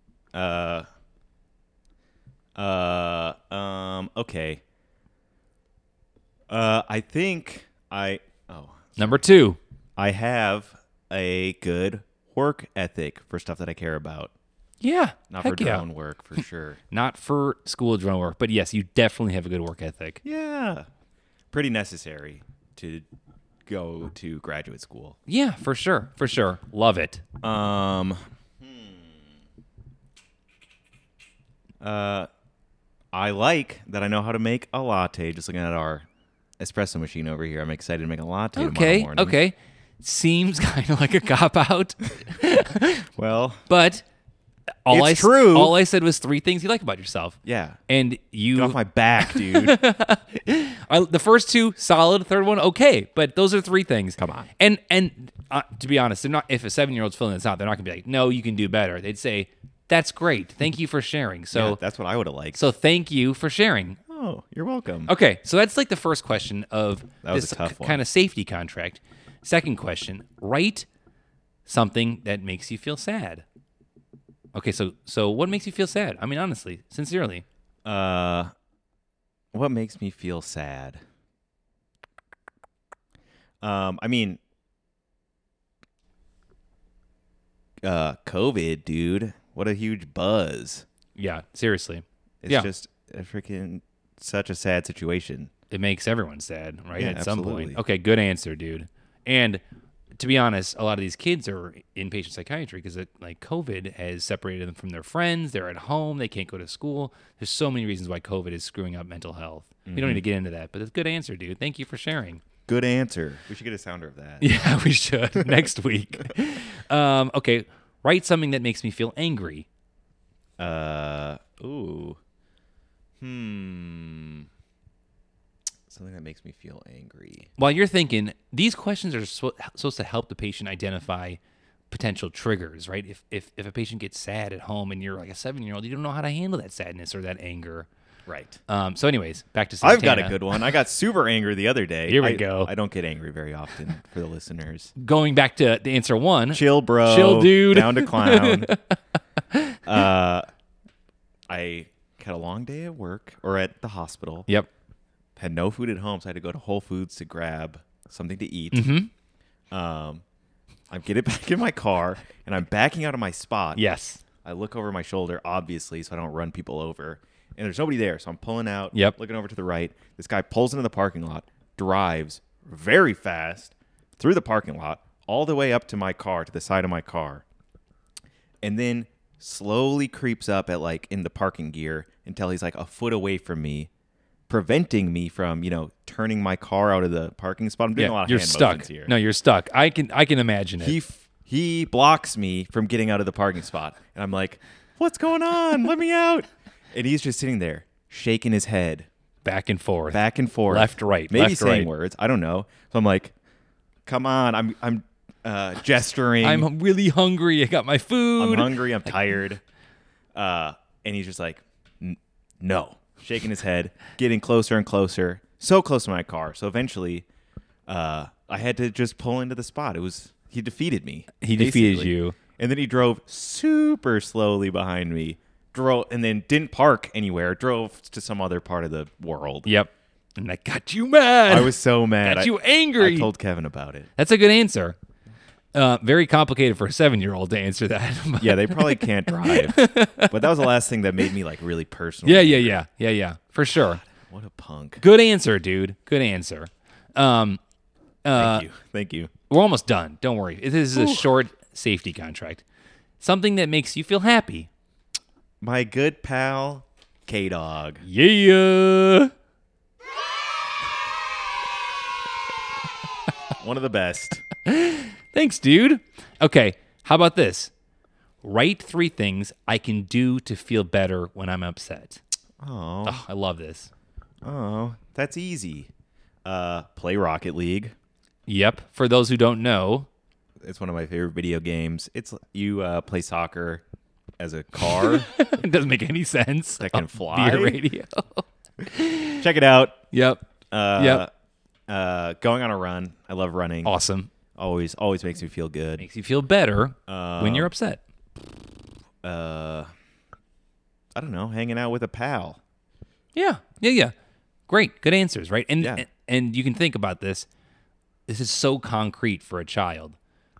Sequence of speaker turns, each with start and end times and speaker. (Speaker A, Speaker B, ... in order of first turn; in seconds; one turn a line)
Speaker A: 0.3-0.8
Speaker A: 2.5-4.6
Speaker A: 6.5-9.2
Speaker B: 9.0-9.6
Speaker A: 10.0-14.3
Speaker B: 14.8-15.8
Speaker A: 15.3-16.8
Speaker B: 16.9-20.2
Speaker A: 20.2-20.9
Speaker A: 21.5-23.1
Speaker A: 23.6-25.2
Speaker B: 25.3-27.2
Speaker A: 27.4-29.1
Speaker A: 31.8-32.3
Speaker A: 33.1-36.0
Speaker A: 36.6-39.4
Speaker B: 38.5-43.0
Speaker A: 43.1-43.6
Speaker B: 43.7-44.0
Speaker B: 44.8-47.4
Speaker A: 44.9-45.8
Speaker A: 47.4-47.8
Speaker B: 47.9-61.8
Speaker A: 48.5-49.8
Speaker A: 54.2-54.5
Speaker A: 61.5-62.6
Speaker B: 62.5-64.0
Speaker A: 64.1-65.1
Speaker B: 65.1-70.9
Speaker A: 67.2-68.0
Speaker B: 71.7-73.4
Speaker B: 74.5-77.4
Speaker A: 77.8-78.5
Speaker A: 79.5-81.0
Speaker A: 83.6-84.4
Speaker A: 87.8-90.8
Speaker B: 91.2-92.7
Speaker A: 92.4-95.5
Speaker B: 95.7-99.6
Speaker A: 96.9-97.8
Speaker B: 100.2-112.4
Speaker A: 109.8-110.2
Speaker A: 112.7-114.5
Speaker B: 114.4-119.7
Speaker A: 120.6-122.2
Speaker A: 123.2-124.5
Speaker A: 125.9-127.5
Speaker B: 127.6-131.4
Speaker B: 131.9-137.9
Speaker A: 138.3-138.6
Speaker B: 138.7-140.4
Speaker A: 139.8-144.9
Speaker B: 142.1-142.7
Speaker B: 145.0-148.9
Speaker A: 146.5-148.7
Speaker A: 149.8-150.5
Speaker A: 151.5-154.5
Speaker A: 155.3-158.9
Speaker B: 158.7-159.1
Speaker A: 159.7-160.2
Speaker A: 160.9-163.8
Speaker B: 163.8-164.2
Speaker A: 164.4-177.4
Speaker A: 178.6-183.9
Speaker A: 184.5-189.1
Speaker B: 187.9-191.0
Speaker A: 190.8-199.1
Speaker B: 199.4-201.9
Speaker A: 200.1-203.3
Speaker A: 204.1-206.7
Speaker B: 206.4-209.1
Speaker A: 208.4-209.6
Speaker A: 210.3-217.2
Speaker A: 217.9-229.7
Speaker B: 221.4-222.3
Speaker B: 229.7-233.3
Speaker A: 231.5-234.1
Speaker B: 234.2-235.0
Speaker B: 235.7-240.4
Speaker A: 238.4-242.8
Speaker B: 242.2-244.0
Speaker A: 244.0-245.0
Speaker B: 245.0-247.6
Speaker B: 248.2-248.7
Speaker A: 248.3-249.3
Speaker B: 249.5-252.6
Speaker A: 250.9-251.2
Speaker B: 253.2-254.7
Speaker A: 255.6-258.0
Speaker B: 258.0-259.3
Speaker A: 263.6-264.4
Speaker B: 264.6-267.7
Speaker B: 268.4-272.2
Speaker A: 272.6-273.2
Speaker B: 273.0-273.9
Speaker A: 274.4-275.9
Speaker A: 276.4-277.9
Speaker B: 278.5-280.1
Speaker A: 280.6-283.8
Speaker A: 284.4-285.3
Speaker B: 284.9-289.4
Speaker A: 286.8-287.8
Speaker A: 289.4-290.0
Speaker B: 290.1-290.4
Speaker A: 290.7-291.3
Speaker B: 290.9-291.2
Speaker A: 291.9-293.9
Speaker B: 293.8-294.3
Speaker A: 294.5-296.0
Speaker B: 296.0-298.0
Speaker A: 297.1-297.7
Speaker A: 299.2-299.9
Speaker A: 301.1-302.6
Speaker B: 303.3-304.1
Speaker B: 304.7-307.5
Speaker A: 305.8-306.1
Speaker B: 308.3-310.2